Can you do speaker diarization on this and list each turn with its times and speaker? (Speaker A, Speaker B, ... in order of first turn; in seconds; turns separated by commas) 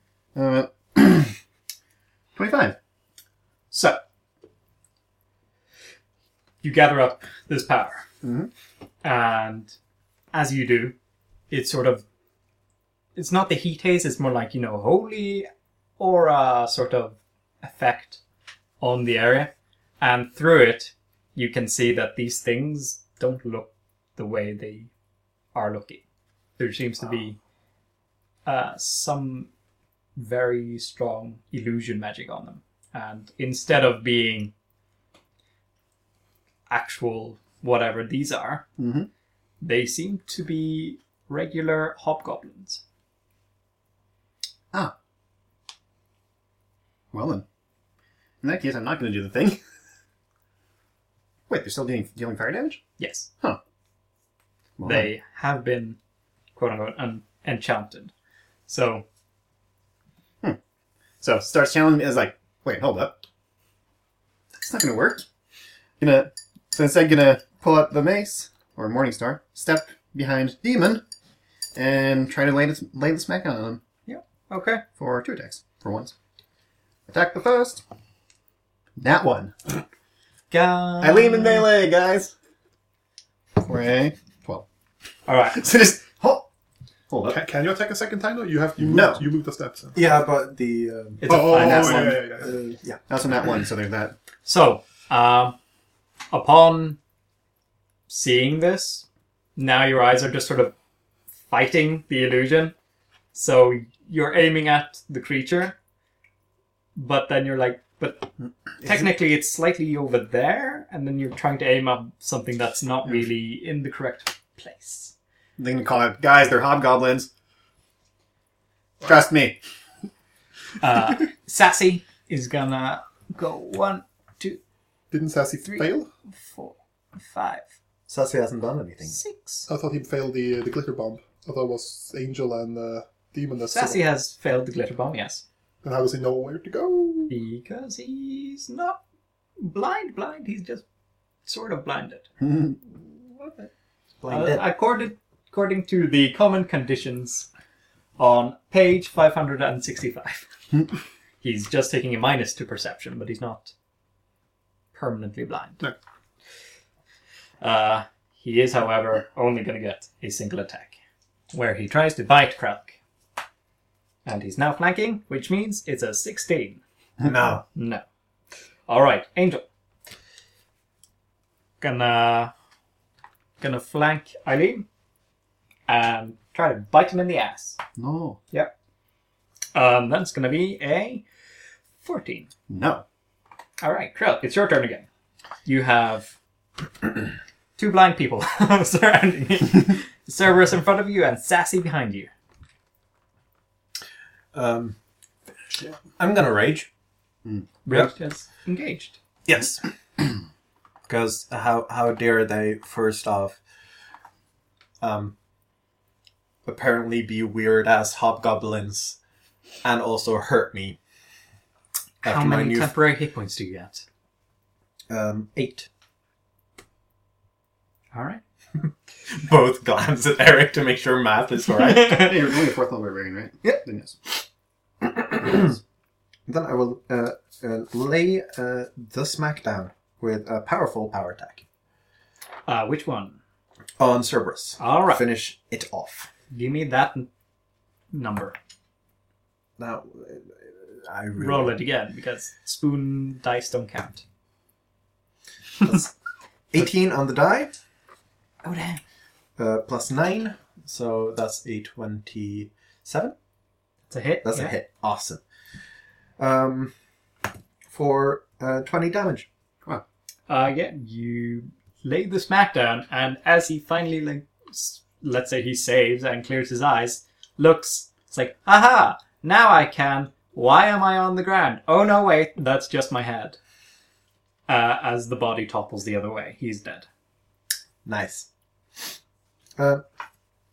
Speaker A: 0.3-1.4, Speaker A: 2.3-2.8, Speaker B: 3.7-4.0, Speaker B: 6.6-8.1, Speaker A: 8.2-8.5, Speaker B: 9.0-9.7, Speaker B: 10.3-10.9, Speaker B: 11.5-12.0, Speaker B: 13.1-15.5, Speaker B: 16.0-18.2, Speaker B: 18.8-24.9, Speaker B: 25.5-26.0, Speaker B: 26.6-27.4, Speaker B: 28.4-29.5, Speaker B: 30.1-34.5, Speaker B: 36.7-38.6, Speaker A: 38.8-39.1, Speaker B: 39.6-42.8, Speaker A: 47.1-47.4, Speaker A: 48.4-49.6, Speaker A: 51.5-52.8, Speaker B: 53.0-53.3, Speaker A: 54.8-55.1, Speaker B: 54.8-56.0, Speaker B: 56.5-58.1, Speaker B: 58.7-59.0, Speaker A: 61.2-63.2, Speaker A: 64.5-65.2, Speaker A: 66.0-71.0, Speaker A: 71.7-73.8, Speaker B: 74.1-74.8, Speaker A: 75.0-76.1, Speaker A: 77.1-77.8, Speaker A: 79.0-79.8, Speaker B: 80.5-81.7, Speaker A: 81.0-82.3, Speaker A: 83.6-84.6, Speaker B: 85.2-85.7, Speaker A: 85.5-86.5, Speaker A: 87.1-87.4, Speaker C: 87.2-90.0, Speaker A: 88.8-89.2, Speaker D: 89.9-91.3, Speaker B: 91.2-92.2, Speaker C: 91.3-92.5, Speaker A: 91.5-92.2, Speaker D: 92.4-93.0, Speaker A: 93.1-94.2, Speaker B: 94.4-95.6, Speaker B: 96.3-97.0, Speaker B: 98.1-99.0, Speaker B: 99.6-100.7, Speaker B: 101.5-102.7, Speaker B: 103.3-105.7, Speaker B: 107.0-115.1, Speaker A: 115.6-117.3, Speaker A: 119.0-119.6, Speaker B: 120.8-124.6, Speaker C: 125.1-126.1, Speaker B: 125.7-127.7, Speaker D: 128.1-129.2, Speaker B: 129.1-129.7, Speaker C: 129.7-134.0, Speaker B: 133.7-135.4, Speaker C: 135.8-137.3, Speaker B: 137.3-139.0, Speaker B: 139.6-140.8, Speaker B: 141.4-142.3, Speaker A: 142.4-142.8, Speaker D: 144.2-144.6, Speaker B: 144.3-147.5, Speaker B: 148.2-150.5, Speaker B: 151.4-153.7, Speaker B: 154.9-155.8, Speaker B: 157.6-160.9, Speaker B: 161.5-163.0, Speaker B: 164.2-166.8, Speaker D: 167.2-167.6, Speaker B: 167.7-168.0, Speaker B: 168.9-169.6, Speaker B: 171.8-172.5, Speaker B: 173.6-174.8, Speaker B: 175.9-177.8, Speaker A: 177.9-178.4, Speaker B: 179.7-181.2, Speaker B: 182.0-182.5, Speaker A: 182.7-183.0, Speaker B: 183.8-185.1, Speaker B: 185.6-186.3, Speaker B: 187.8-192.3, Speaker D: 194.5-194.9, Speaker D: 196.1-196.9, Speaker B: 197.8-199.2, Speaker D: 199.5-199.9, Speaker D: 201.1-203.6, Speaker D: 205.0-205.3, Speaker D: 206.7-209.2, Speaker D: 209.8-211.0, Speaker D: 212.2-212.9, Speaker B: 212.2-214.0, Speaker D: 215.1-215.9, Speaker B: 218.1-218.4, Speaker D: 218.8-222.3, Speaker B: 221.8-222.3, Speaker A: 221.9-224.2, Speaker D: 225.0-225.8, Speaker D: 226.5-231.6, Speaker B: 232.7-233.4, Speaker D: 234.0-236.3, Speaker B: 234.8-235.2, Speaker B: 236.5-237.3, Speaker B: 238.1-238.6, Speaker D: 239.8-241.8, Speaker B: 241.4-244.2, Speaker D: 245.8-246.1, Speaker D: 246.7-247.7, Speaker B: 248.6-249.0, Speaker D: 249.6-253.3, Speaker B: 254.1-254.7, Speaker D: 254.4-255.4, Speaker D: 256.4-256.9, Speaker D: 257.9-259.5, Speaker B: 260.5-273.6, Speaker B: 274.7-277.1, Speaker D: 278.0-278.5, Speaker D: 279.8-280.0